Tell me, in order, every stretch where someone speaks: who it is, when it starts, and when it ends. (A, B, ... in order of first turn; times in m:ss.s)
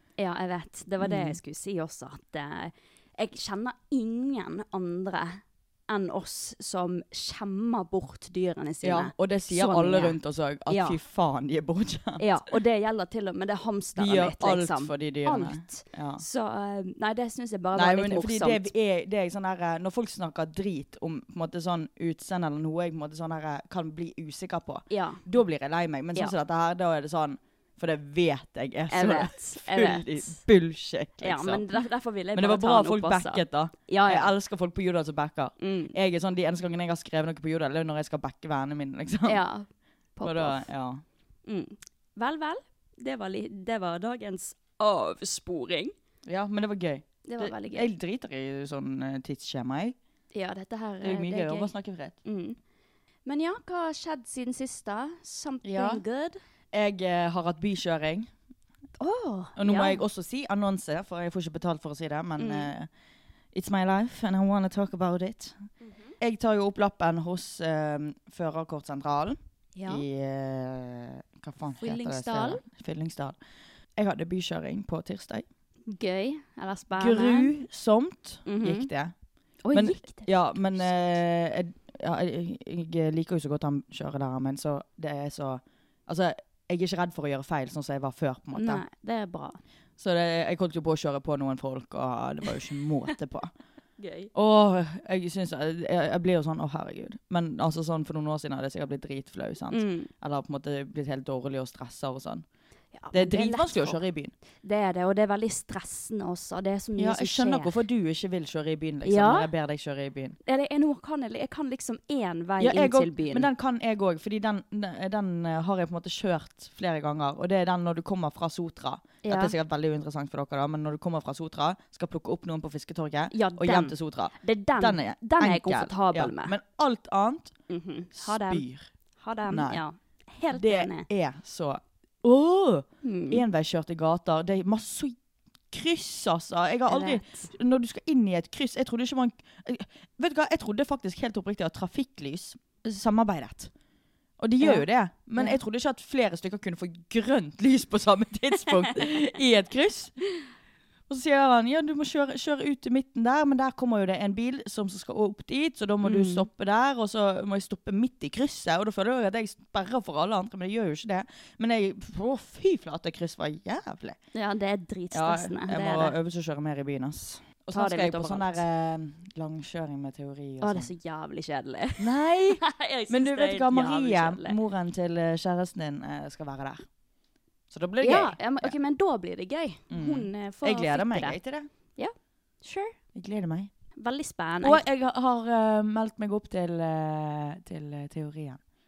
0:00.2-0:11.0 A
0:01.0-0:01.4 B
0:08.8-0:12.2 B
0:12.2-0:18.7 A
0:14.0-0:16.2 B
0:17.7-0:31.8 B
0:24.9-0:25.2 A
0:28.9-0:30.4 A
0:31.2-0:34.3 A
0:32.3-0:39.4 B
0:35.6-0:35.9 A
0:39.2-0:40.7 A
0:40.2-0:41.0 B
0:41.4-0:45.9 A
0:46.2-0:49.9 B
0:47.2-0:47.9 A
0:50.3-0:51.7 A
0:51.0-0:52.2 B
0:52.2-0:52.6 A
0:53.2-0:56.4 A
0:55.6-0:56.0 B
0:56.7-0:58.3 B
0:59.0-1:00.0 A
0:59.6-1:02.9 B
1:02.4-1:02.7 A
1:03.5-1:05.7 B
1:05.8-1:06.1 A
1:06.2-1:13.4 B
1:09.8-1:10.0 A
1:11.8-1:12.6 A
1:14.0-1:15.4 B
1:15.9-1:17.5 A
1:17.0-1:19.1 B
1:18.4-1:18.9 A
1:19.6-1:20.9 A
1:19.7-1:28.8 B
1:28.5-1:29.6 A
1:30.0-1:33.5 B
1:34.0-1:34.3 A
1:34.3-1:42.4 B
1:39.7-1:40.1 A
1:42.9-1:44.0 A
1:43.1-1:44.3 B
1:44.6-1:47.7 A
1:47.0-1:50.4 B
1:49.0-1:49.5 A
1:50.4-1:53.5 A
1:52.6-2:07.5 B
1:59.2-1:59.5 A
2:03.3-2:06.5 A
2:07.7-2:08.6 A
2:08.1-2:08.9 B
2:09.2-2:11.1 A
2:09.5-2:09.8 B
2:10.5-2:15.2 B
2:13.0-2:13.4 A
2:15.7-2:23.7 B
2:16.9-2:17.5 A
2:24.4-2:30.1 B
2:24.6-2:25.6 A
2:31.1-2:44.2 B
2:36.0-2:36.5 A
2:44.3-2:46.2 A
2:45.1-2:50.9 B
2:47.7-2:48.6 A
2:50.6-2:54.6 A
2:52.0-2:56.8 B
2:57.7-2:58.7 B
2:58.0-3:01.4 A
2:59.9-3:01.7 B
3:02.0-3:02.9 A
3:03.1-3:03.7 B
3:04.0-3:04.8 A
3:04.6-3:08.6 B